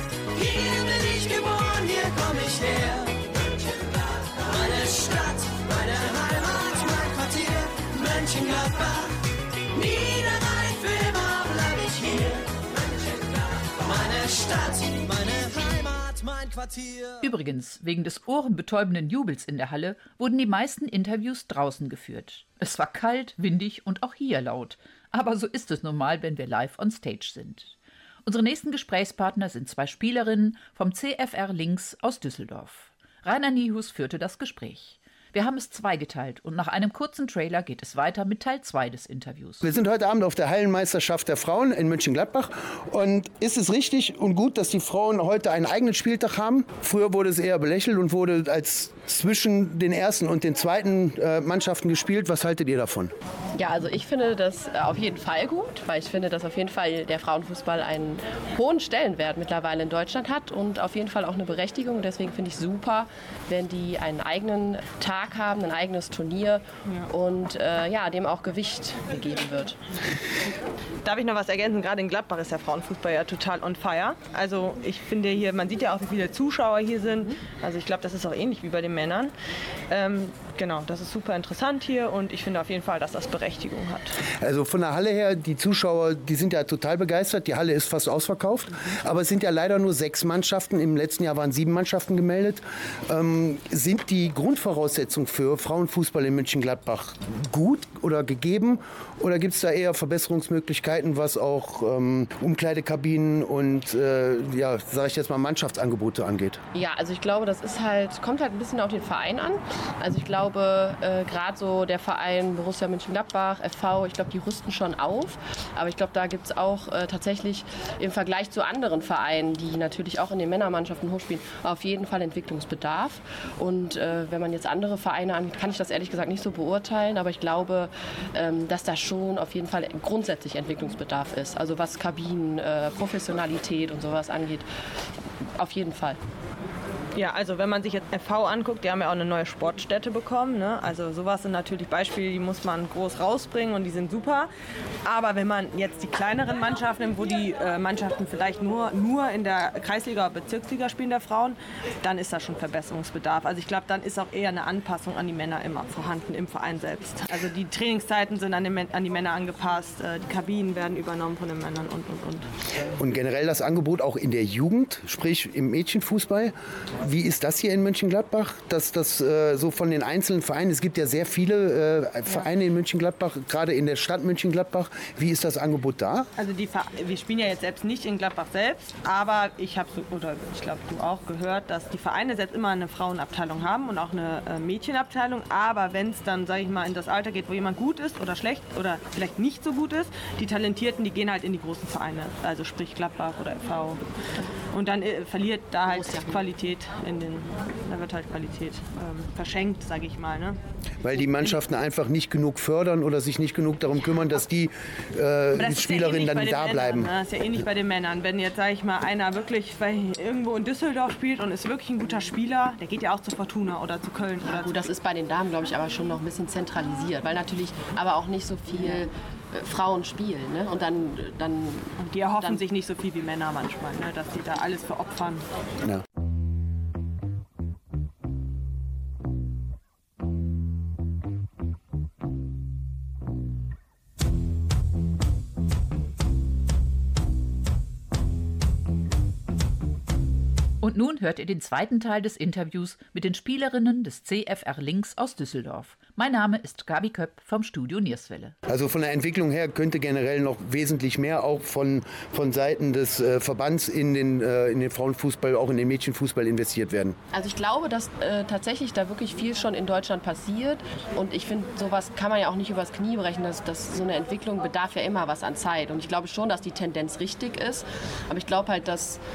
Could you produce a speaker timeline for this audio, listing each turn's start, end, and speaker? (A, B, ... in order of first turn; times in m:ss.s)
0:00.3-0:09.1 A
0:09.7-0:13.3 A
0:13.8-0:17.3 A
0:17.2-0:39.7 B
0:39.6-0:53.1 C
0:53.6-1:09.8 D
1:11.0-1:19.3 E
1:19.9-1:24.2 E
1:24.4-1:46.6 C
1:46.7-2:14.7 D
2:15.6-2:16.2 D
2:17.2-2:24.5 E
2:25.0-2:42.5 E
2:43.0-2:56.3 C
2:56.4-3:14.0 E
3:14.7-3:20.6 E
3:15.9-3:16.4 D
3:21.0-3:27.1 C
3:25.6-3:34.8 E
3:34.4-3:42.6 D
3:42.0-3:45.4 E
4:00.8-4:08.6 B
4:08.7-4:17.2 C
4:17.3-4:29.2 D